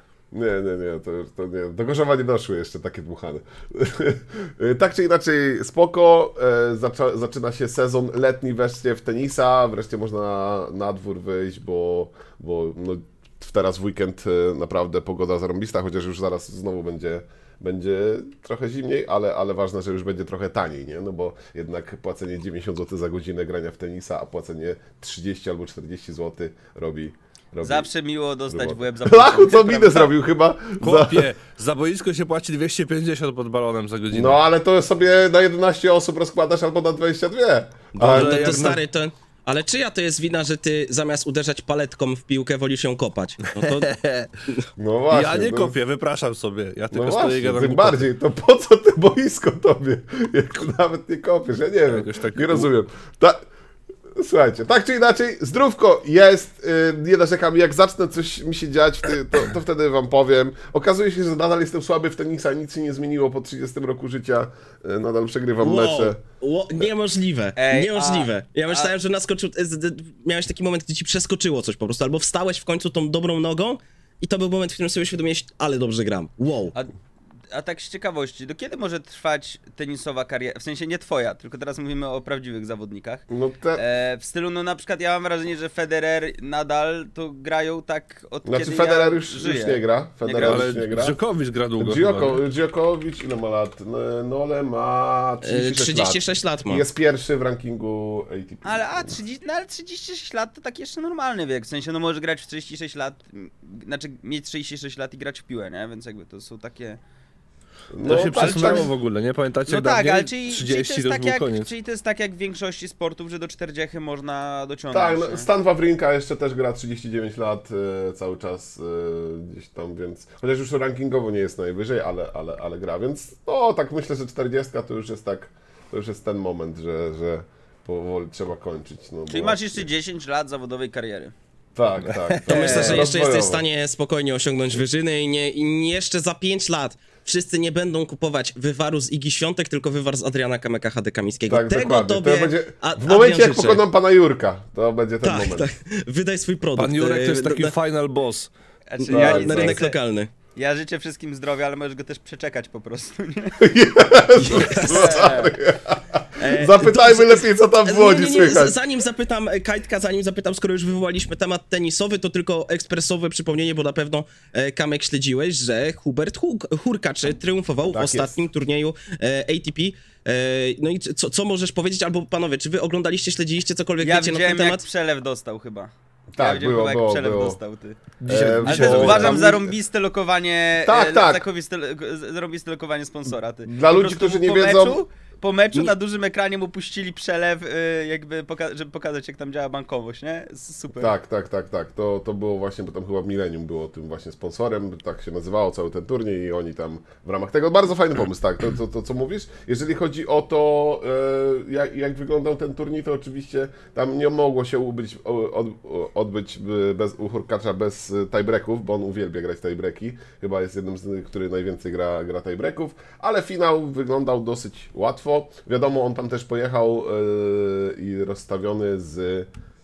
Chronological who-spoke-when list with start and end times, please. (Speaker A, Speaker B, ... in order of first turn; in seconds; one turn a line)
Speaker A: 0.3-27.9
Speaker B: 27.6-30.1
Speaker A: 28.5-31.3
Speaker C: 30.8-34.4
Speaker A: 34.1-38.8
Speaker C: 37.9-38.8
Speaker D: 38.0-43.9
Speaker C: 43.6-44.3
Speaker A: 44.8-45.7
Speaker C: 45.1-48.0
Speaker A: 46.9-53.4
Speaker C: 51.9-52.7
Speaker A: 54.1-66.2
Speaker D: 65.6-76.7
Speaker B: 67.5-68.9
Speaker B: 77.5-83.2
Speaker A: 83.3-83.8
Speaker B: 83.7-90.7
Speaker A: 88.5-91.2
Speaker C: 90.4-92.4
Speaker A: 91.8-99.1
Speaker D: 95.4-96.8
Speaker B: 98.6-107.0
Speaker A: 107.9-108.9
Speaker C: 108.0-111.7
Speaker B: 108.3-108.8
Speaker B: 109.7-115.5
Speaker A: 114.9-129.8
Speaker B: 129.3-131.3
Speaker A: 131.7-133.6
Speaker C: 132.3-133.1
Speaker D: 132.5-143.8
Speaker A: 141.5-145.7
Speaker D: 145.2-147.7
Speaker C: 146.8-148.5
Speaker B: 148.9-150.0
Speaker D: 149.0-150.3
Speaker A: 149.1-149.8
Speaker B: 150.6-153.7
Speaker A: 153.6-158.8
Speaker D: 154.3-155.4
Speaker B: 154.5-155.5
Speaker D: 156.4-174.8
Speaker A: 167.9-168.4
Speaker B: 174.0-178.0
Speaker A: 176.3-177.6
Speaker C: 178.2-179.4
Speaker A: 178.2-179.7
Speaker B: 178.6-191.1
Speaker A: 180.8-181.4
Speaker A: 183.7-185.0
Speaker A: 191.0-219.5